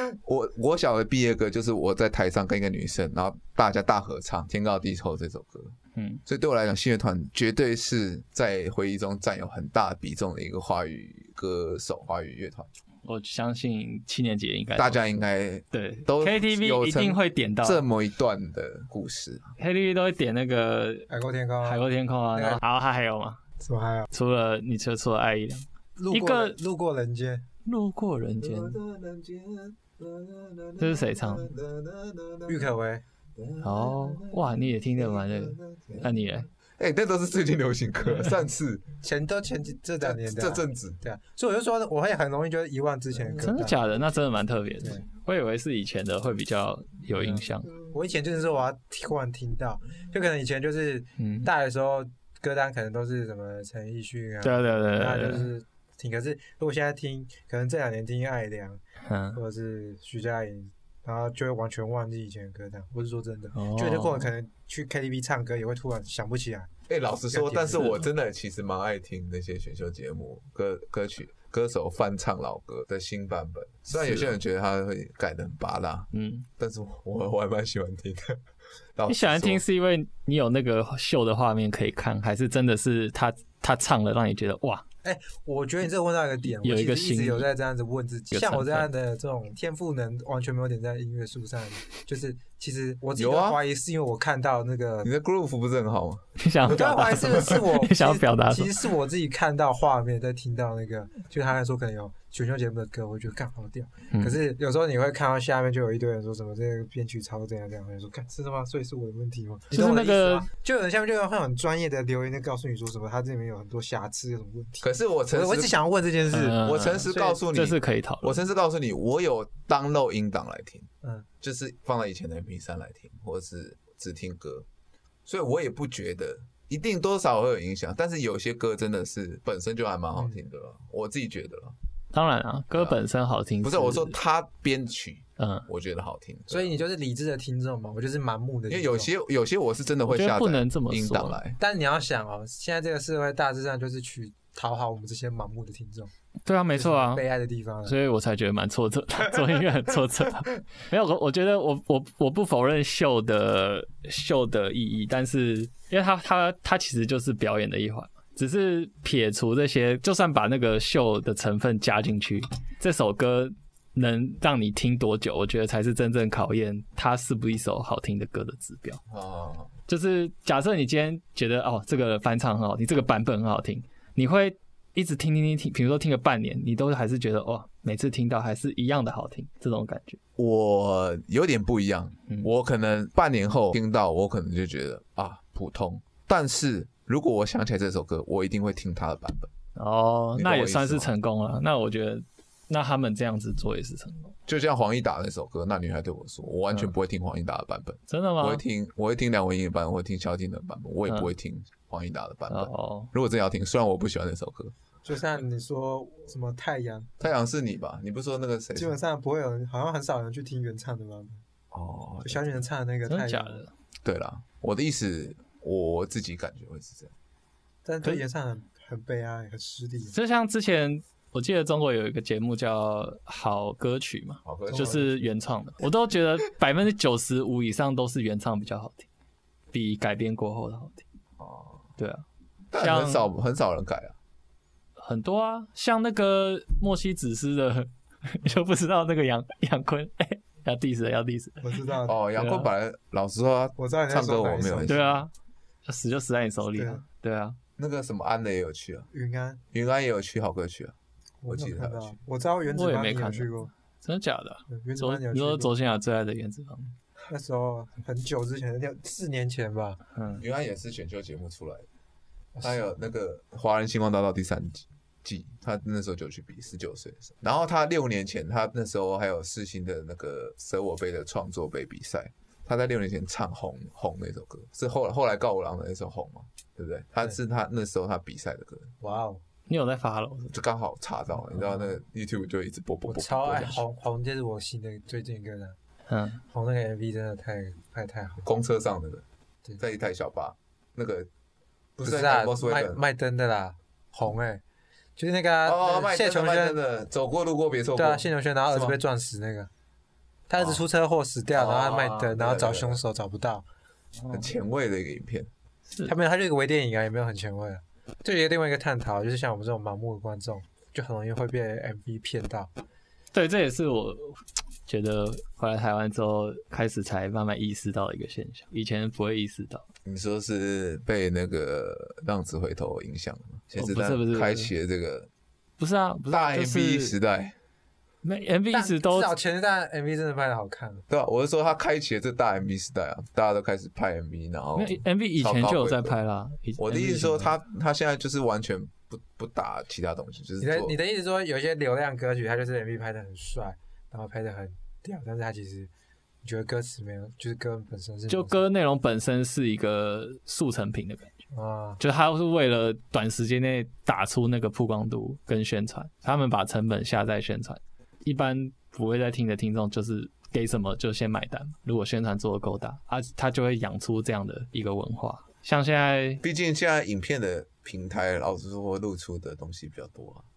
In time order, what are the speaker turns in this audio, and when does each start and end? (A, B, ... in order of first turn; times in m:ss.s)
0:00.2-0:05.7 A
0:05.9-0:06.2 B
0:06.2-0:12.7 A
0:13.0-0:15.0 B
0:14.8-0:19.5 A
0:15.7-0:17.8 B
0:19.6-0:21.1 B
0:21.1-0:21.8 C
0:21.6-0:23.4 B
0:22.3-0:22.6 C
0:23.6-0:24.1 C
0:24.1-0:26.6 B
0:26.0-0:27.4 C
0:27.6-0:28.8 B
0:28.4-0:32.7 A
0:30.8-0:31.5 B
0:32.5-0:33.0 C
0:33.4-0:38.8 A
0:33.6-0:36.5 B
0:39.0-0:43.8 C
0:40.0-0:41.0 A
0:43.4-0:47.7 B
0:47.9-0:58.8 C
0:51.2-0:51.5 B
0:54.4-0:55.5 B
0:59.0-0:59.4 B
0:59.3-1:06.7 C
1:03.5-1:04.3 B
1:06.9-1:18.4 A
1:07.3-1:08.0 C
1:13.9-1:14.4 B
1:16.1-1:16.5 B
1:19.0-1:19.6 A
1:19.1-1:24.8 B
1:25.0-1:35.1 C
1:26.6-1:27.4 B
1:28.3-1:28.9 B
1:33.2-1:33.6 A
1:35.0-1:36.2 A
1:36.4-1:38.7 B
1:36.6-1:57.4 C
1:49.7-1:50.5 B
1:54.8-1:55.7 A
1:56.3-1:58.4 B
1:56.5-2:00.9 A
2:01.4-2:04.7 A
2:05.2-2:11.7 A
2:12.1-2:14.2 B
2:13.6-2:16.8 A
2:15.4-2:15.7 B
2:16.5-2:19.1 C
2:18.7-2:21.6 A
2:20.1-2:21.4 B
2:21.6-2:26.1 C
2:26.4-2:27.2 B
2:26.7-2:27.9 C
2:27.8-2:49.0 B
2:49.1-2:49.7 A
2:49.9-3:00.2 B
3:00.4-3:09.5 A
3:09.8-3:14.3 B
3:10.3-3:11.1 A
3:14.5-3:24.7 A
3:18.1-3:18.6 B
3:22.5-3:23.1 B
3:25.0-3:27.1 C
3:27.2-3:29.0 A
3:28.8-3:31.4 C
3:31.7-3:32.5 A
3:32.2-3:33.6 C
3:33.1-3:33.7 B
3:34.0-3:37.1 A
3:37.8-3:40.1 C
3:40.1-3:49.1 B
3:44.4-3:45.1 A
3:44.7-3:45.2 C
3:49.7-3:51.0 B
3:51.4-3:51.9 A
3:52.0-3:52.2 B
3:52.7-3:54.1 A
3:52.8-3:53.3 B
3:55.0-4:02.7 B
4:01.6-4:02.2 C
4:02.0-4:05.1 A
4:03.8-4:05.2 C
4:04.8-4:05.3 B
4:05.8-4:07.6 B
4:06.8-4:07.0 C
4:07.8-4:09.1 A
4:09.1-4:09.6 C
4:09.7-4:10.9 A
4:11.4-4:13.7 C
4:11.5-4:12.2 A
4:12.7-4:16.9 B
4:14.7-4:15.7 C
4:17.2-4:20.0 C
4:20.1-4:20.4 B
4:20.4-4:21.9 A
4:22.5-4:22.9 C
4:22.6-4:38.9 A
4:39.0-4:39.4 C
4:39.7-4:40.5 B
4:40.5-4:43.8 A
4:43.0-4:45.8 C
4:46.1-4:46.4 B
4:46.5-4:48.4 C
4:48.4-4:49.2 A
4:49.8-4:51.3 A
4:52.0-4:54.6 C
4:52.0-4:53.0 A
4:55.2-4:56.8 C
4:55.6-4:59.0 A
4:58.0-4:59.7 C
5:00.5-5:03.6 C
5:01.5-5:03.0 A
5:04.3-5:05.5 A
5:05.9-5:06.1 B
5:06.0-5:12.7 C
5:13.3-5:19.8 B
5:20.0-5:25.3 A
5:23.8-5:24.7 B
5:25.8-5:27.2 B
5:26.3-5:27.6 A
5:28.2-5:29.3 B
5:28.7-5:31.0 C
5:31.1-5:36.2 A
5:34.8-5:37.5 B
5:36.8-5:40.9 A
5:40.6-5:45.9 C
5:46.4-5:48.6 C
5:48.3-5:51.4 B
5:51.5-5:52.0 C
5:52.0-6:06.4 B
6:06.4-6:10.4 A